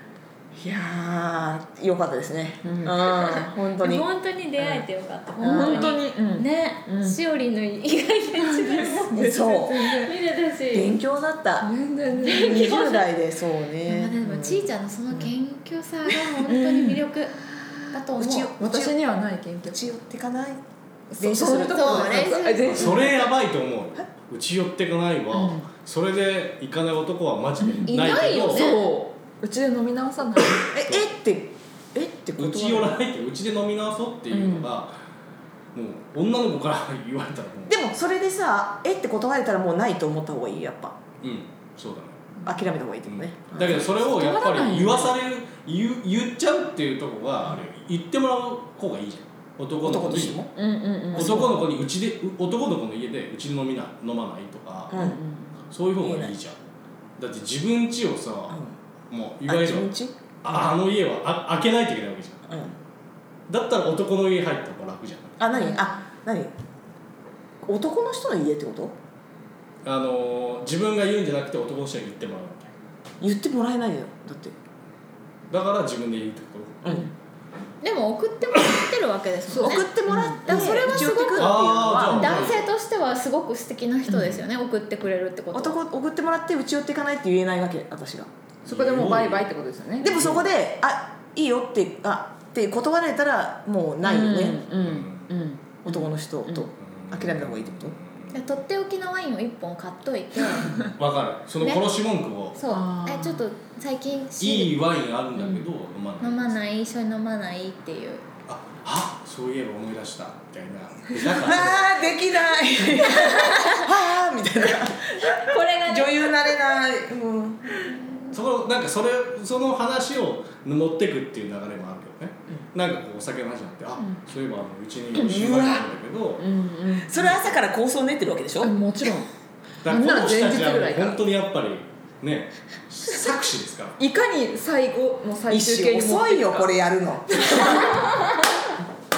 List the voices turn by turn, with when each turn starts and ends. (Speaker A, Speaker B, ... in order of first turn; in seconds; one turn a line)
Speaker A: 0.6-4.8
Speaker B: 2.6-3.1
Speaker C: 2.9-11.0
Speaker A: 5.4-6.0
Speaker B: 5.4-7.2
Speaker B: 8.4-10.2
Speaker A: 9.1-9.9
Speaker A: 10.7-11.7
Speaker B: 11.6-12.7
Speaker C: 12.2-13.1
Speaker A: 12.2-15.3
Speaker C: 13.8-17.3
Speaker B: 16.4-17.1
Speaker C: 17.9-18.5
Speaker A: 18.2-19.0
Speaker B: 18.6-19.9
Speaker A: 19.7-20.6
Speaker B: 21.1-23.3
Speaker A: 21.2-22.5
Speaker C: 21.4-23.0
Speaker D: 22.6-28.7
Speaker B: 25.3-25.6
Speaker B: 27.6-30.8
Speaker C: 27.9-28.9
Speaker A: 30.7-33.0
Speaker D: 32.4-35.0
Speaker B: 34.3-34.7
Speaker D: 35.7-37.8
Speaker A: 37.7-41.0
Speaker D: 41.2-42.2
Speaker A: 42.5-44.1
Speaker D: 43.1-50.4
Speaker B: 44.0-45.2
Speaker A: 49.8-50.5
Speaker B: 50.6-51.6
Speaker A: 51.1-51.7
Speaker D: 51.1-55.0
Speaker A: 54.9-55.2
Speaker B: 55.0-55.5
Speaker D: 55.7-56.6
Speaker A: 56.0-56.4
Speaker D: 57.2-59.9
Speaker A: 59.5-60.1
Speaker D: 60.4-62.4
Speaker A: 62.5-62.8
Speaker D: 63.5-65.4
Speaker A: 65.4-66.5
Speaker B: 65.5-65.9
Speaker A: 67.6-69.0
Speaker D: 69.8-72.7
Speaker A: 73.2-74.5
Speaker D: 75.5-77.0
Speaker A: 76.8-77.1
Speaker C: 77.8-79.9
Speaker B: 79.5-81.1
Speaker A: 79.6-82.4
Speaker C: 80.4-85.8
Speaker D: 81.3-82.7
Speaker A: 85.5-88.3
Speaker D: 88.7-89.5
Speaker B: 88.7-90.1
Speaker A: 90.0-94.6
Speaker D: 90.0-90.5
Speaker B: 94.0-96.7
Speaker D: 94.8-95.3
Speaker A: 95.8-98.0
Speaker D: 96.8-98.4
Speaker C: 98.3-100.8
Speaker D: 100.7-102.6
Speaker C: 101.6-101.8
Speaker C: 102.5-104.7
Speaker B: 102.7-103.4
Speaker D: 104.4-106.6
Speaker C: 106.2-108.2
Speaker D: 108.5-111.8
Speaker A: 111.3-117.9
Speaker C: 113.0-113.9
Speaker C: 115.2-116.6
Speaker C: 117.9-118.3
Speaker D: 118.3-126.5
Speaker A: 125.2-125.9
Speaker B: 126.4-127.4
Speaker A: 127.0-128.7
Speaker B: 128.6-129.3
Speaker D: 129.8-134.0
Speaker B: 129.9-131.2
Speaker B: 134.0-136.7
Speaker A: 135.5-138.2
Speaker B: 137.5-138.1